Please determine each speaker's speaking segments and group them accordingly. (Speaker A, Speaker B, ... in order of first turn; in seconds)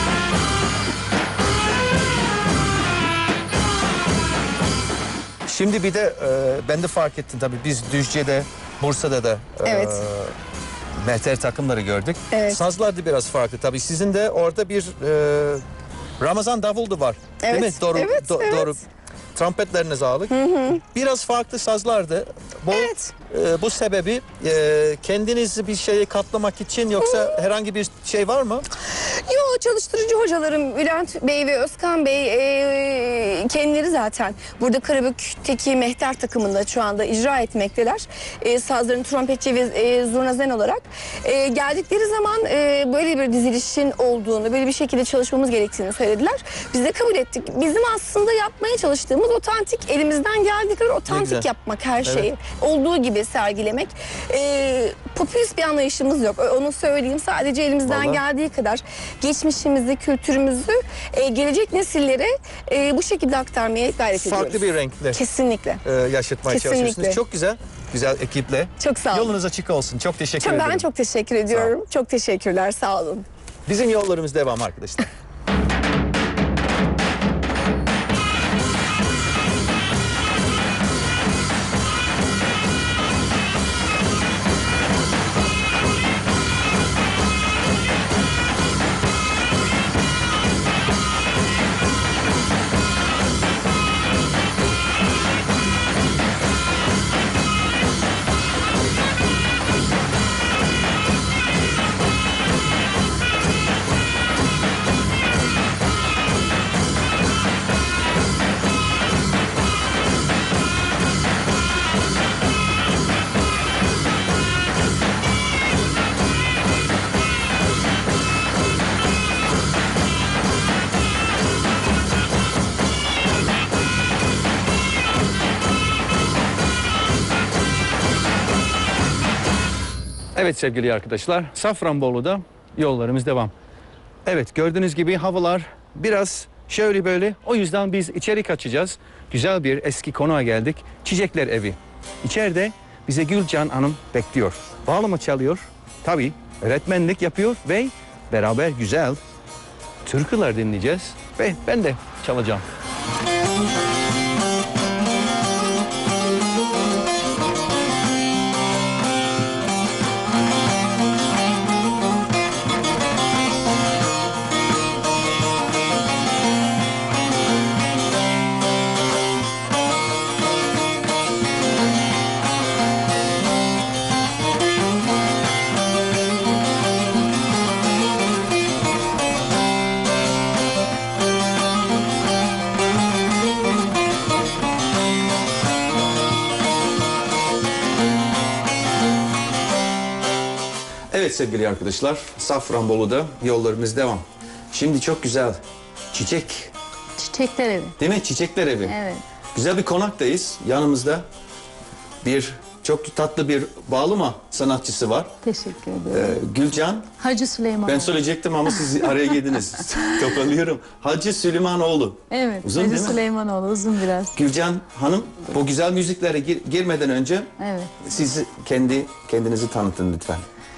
Speaker A: 5.5-10.3, 10.9-15.6, 16.2-18.8, 19.3-28.6, 51.1-51.5, 57.9-58.2, 64.2-65.2, 65.8-70.8, 73.7-75.1, 130.3-133.5, 134.2-149.2, 150.0-152.6, 191.1-195.6, 196.1-196.7, 198.0-198.9, 199.5-201.2, 202.2-205.3, 206.1-207.1, 207.8-213.2, 214.3-217.5, 218.0-220.4
Speaker B: 9.6-10.0, 12.3-12.6, 17.4-18.7, 20.3-20.8, 22.7-23.1, 27.0-27.4, 28.9-65.8, 66.5-67.2, 68.8-69.3, 70.4-73.3
Speaker C: 197.2-198.0, 198.8-199.2, 205.4-206.4, 207.2-210.4, 212.3-214.4, 217.6-218.0